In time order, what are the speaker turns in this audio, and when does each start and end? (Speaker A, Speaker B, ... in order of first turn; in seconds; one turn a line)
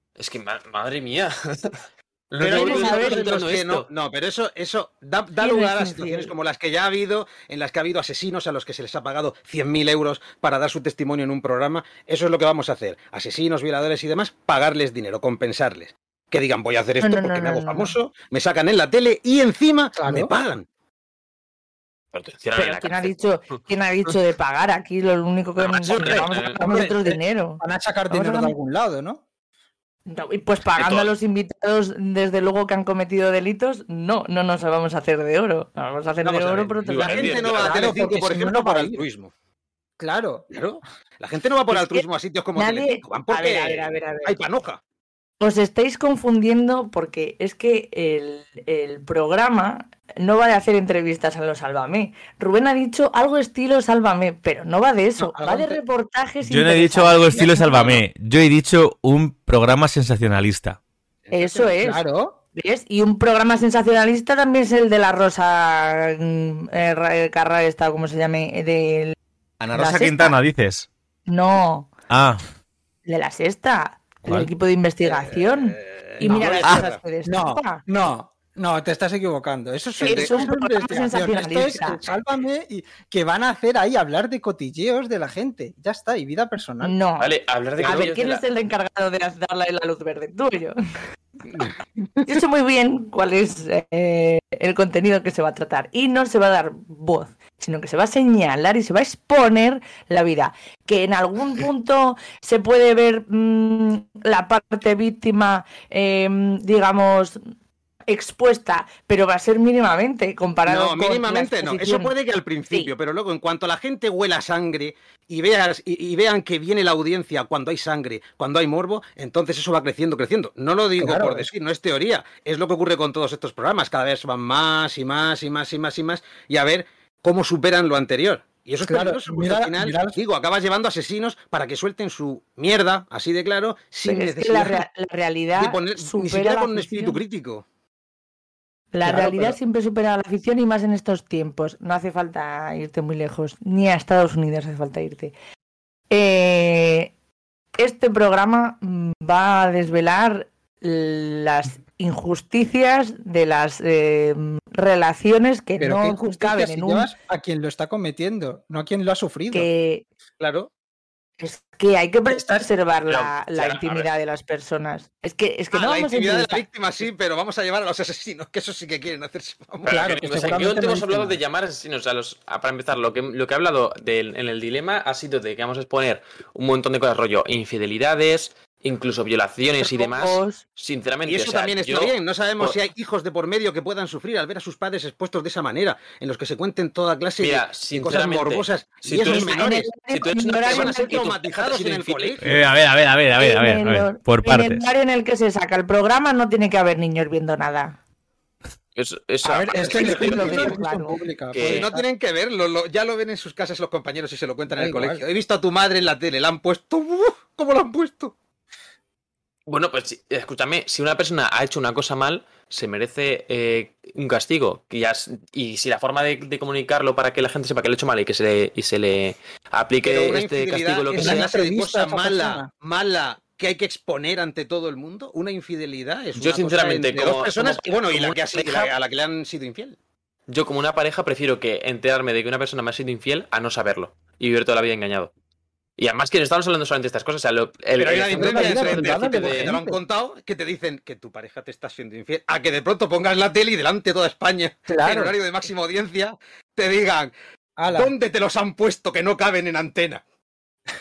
Speaker A: 0.2-3.9
Speaker B: 2.4-20.7
Speaker C: 2.5-3.4
Speaker C: 5.4-6.3
Speaker C: 17.0-17.9
Speaker D: 20.0-20.3
Speaker A: 22.1-23.6
Speaker C: 22.6-28.6
Speaker A: 25.6-26.6
Speaker B: 26.1-26.9
Speaker D: 26.6-29.2
Speaker C: 30.1-37.8
Speaker A: 30.8-31.1
Speaker B: 36.2-39.3
Speaker A: 36.8-37.8
Speaker D: 37.5-39.0
Speaker D: 40.0-40.5
Speaker B: 40.5-44.8
Speaker C: 41.7-44.4
Speaker C: 45.4-58.0
Speaker D: 55.2-55.8
Speaker E: 56.4-60.8
Speaker B: 61.3-61.7
Speaker C: 61.3-62.0
Speaker D: 61.8-62.4
Speaker C: 62.5-69.2
Speaker E: 69.6-70.9
Speaker C: 69.7-70.4
Speaker C: 71.3-71.9
Speaker E: 72.1-72.4
Speaker C: 73.1-77.8
Speaker B: 75.0-77.0
Speaker D: 76.2-87.0
Speaker B: 80.0-80.5
Speaker C: 80.0-82.0
Speaker C: 86.8-90.8
Speaker A: 87.2-88.4
Speaker C: 92.2-107.4
Speaker C: 108.1-112.1
Speaker B: 110.7-134.8
Speaker D: 121.0-121.5
Speaker D: 128.8-130.2
Speaker C: 134.0-137.2
Speaker B: 135.6-137.7
Speaker C: 138.9-145.3
Speaker D: 139.1-139.5
Speaker B: 139.1-139.5
Speaker C: 146.1-147.1
Speaker C: 147.8-157.1
Speaker D: 155.8-159.7
Speaker C: 159.5-160.1
Speaker B: 160.4-160.7
Speaker C: 161.4-166.7
Speaker D: 162.3-162.6
Speaker A: 163.1-164.1
Speaker B: 165.7-170.6
Speaker A: 169.9-182.8
Speaker D: 169.9-171.4
Speaker C: 179.8-180.6
Speaker B: 181.3-192.5
Speaker A: 187.4-192.4
Speaker C: 189.2-191.3
Speaker E: 192.4-194.9
Speaker C: 193.4-198.0
Speaker A: 199.0-200.8
Speaker D: 199.4-202.1
Speaker C: 199.9-201.2
Speaker A: 201.5-201.9
Speaker B: 201.6-208.3
Speaker D: 204.7-205.2
Speaker A: 209.7-221.5
Speaker B: 220.0-230.0
Speaker D: 221.2-222.7
Speaker A: 226.4-228.9
Speaker A: 230.5-235.3
Speaker A: 236.0-239.8
Speaker B: 238.0-247.3
Speaker D: 238.3-240.0
Speaker D: 244.9-245.3
Speaker D: 247.8-248.1
Speaker B: 247.9-250.2